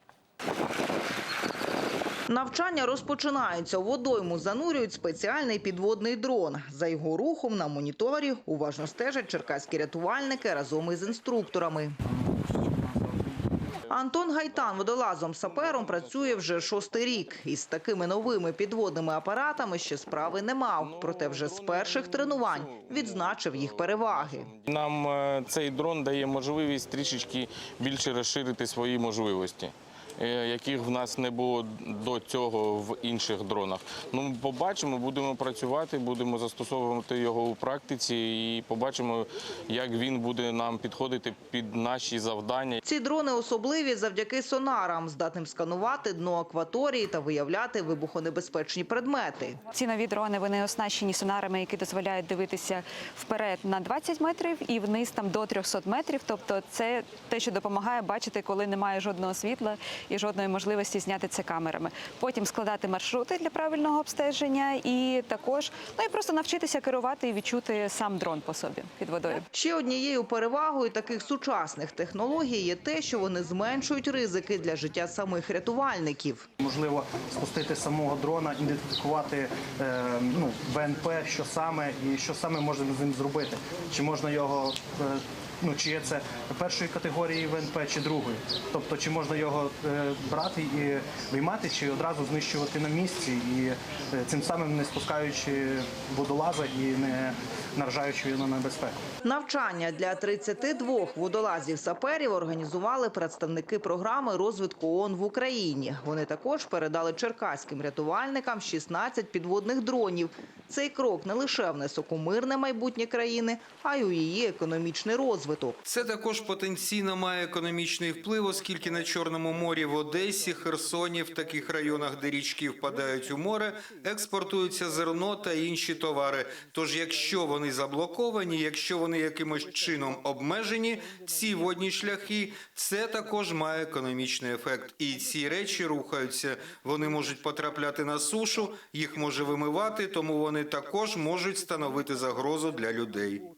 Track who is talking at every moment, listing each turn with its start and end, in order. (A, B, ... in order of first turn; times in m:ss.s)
0:02.3-0:11.9 A
0:13.9-0:24.5 A
0:20.8-0:42.8 B
0:42.8-0:49.6 A
0:49.7-1:09.4 C
1:09.5-1:16.4 A
1:16.6-1:39.0 D
1:39.2-1:55.8 A
1:55.8-2:23.4 E